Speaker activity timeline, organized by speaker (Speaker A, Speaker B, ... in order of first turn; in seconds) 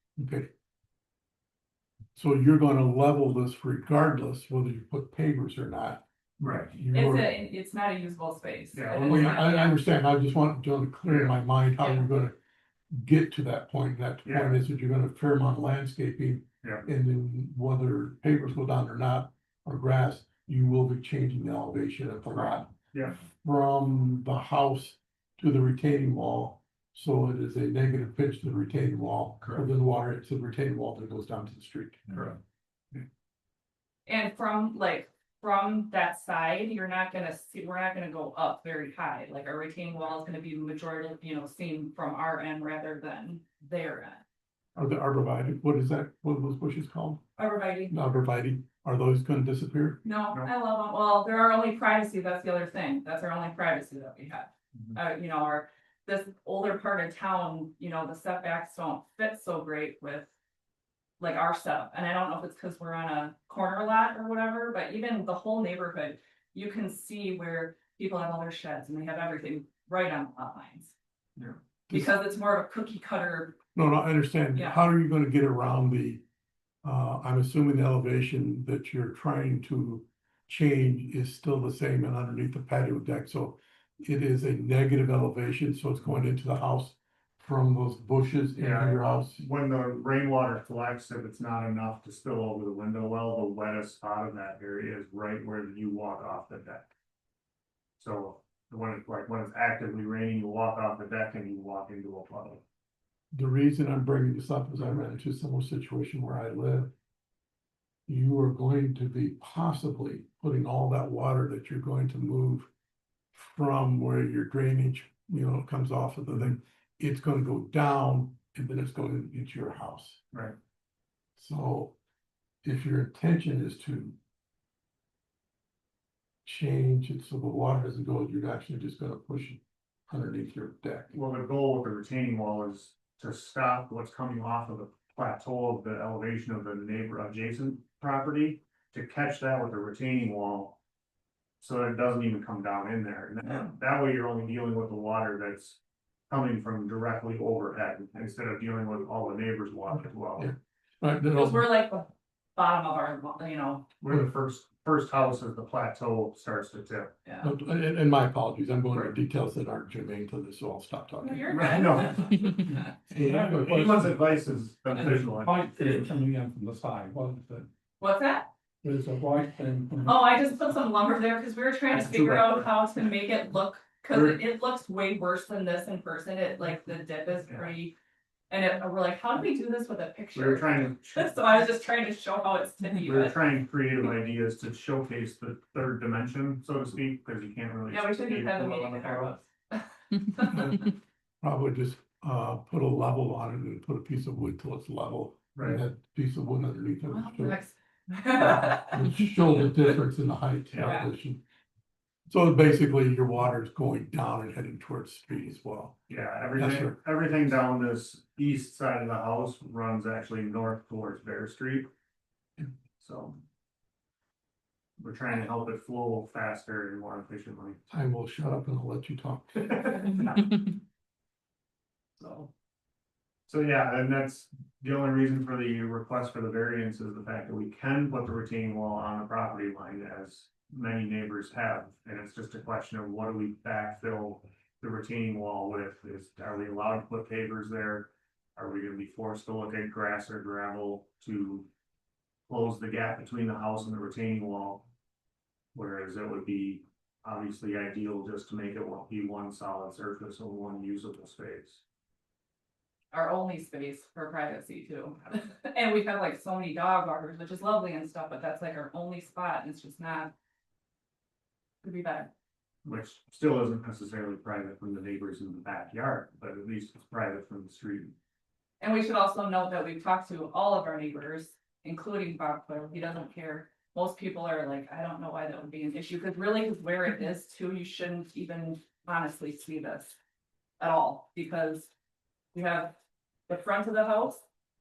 Speaker A: 0.2-0.5, 2.1-6.0, 6.7-7.4, 9.1-12.4, 12.9-22.7, 23.4-32.2, 44.8-47.2, 47.9-50.0, 73.7-76.2, 76.8-89.5, 103.3-106.9, 108.1-112.7, 113.3-120.2, 121.4-122.0, 122.6-124.2, 126.5-131.2, 150.4-151.8, 157.4-161.7, 163.1-164.2, 165.5-166.1, 168.8-170.2, 191.4-197.6, 198.9-201.4, 202.3-206.0, 206.6-207.0, 217.9-219.7
Speaker B: 6.4-6.8, 8.7-9.4, 11.1-11.4, 14.2-14.6, 22.9-23.2, 32.1-32.4, 88.6-96.9, 98.0-102.6, 120.3-120.6, 131.1-140.8, 141.6-150.5, 154.0-157.2, 158.9-159.2, 161.5-165.6, 171.9-172.7, 174.1-174.4, 180.3-181.4, 183.0-189.3, 195.6-195.8, 206.1-211.9, 213.0-213.4, 215.0-217.8, 219.6-220.6, 223.5-241.7, 242.5-244.9, 245.7-251.8, 262.9-268.1
Speaker C: 6.9-9.8, 34.1-44.2, 47.4-47.9, 50.0-60.3, 61.2-70.9, 71.9-73.6, 74.5-74.8, 143.5-143.7, 151.3-153.9, 157.3-157.5, 161.2-162.9, 168.0-168.5, 170.1-177.9, 178.5-183.4, 187.9-190.9, 197.1-199.9, 200.8-201.1, 253.1-260.3, 261.8-262.3, 268.8-280.2, 280.8-281.9, 282.5-283.0, 283.5-284.4
Speaker D: 163.3-164.2, 164.9-167.7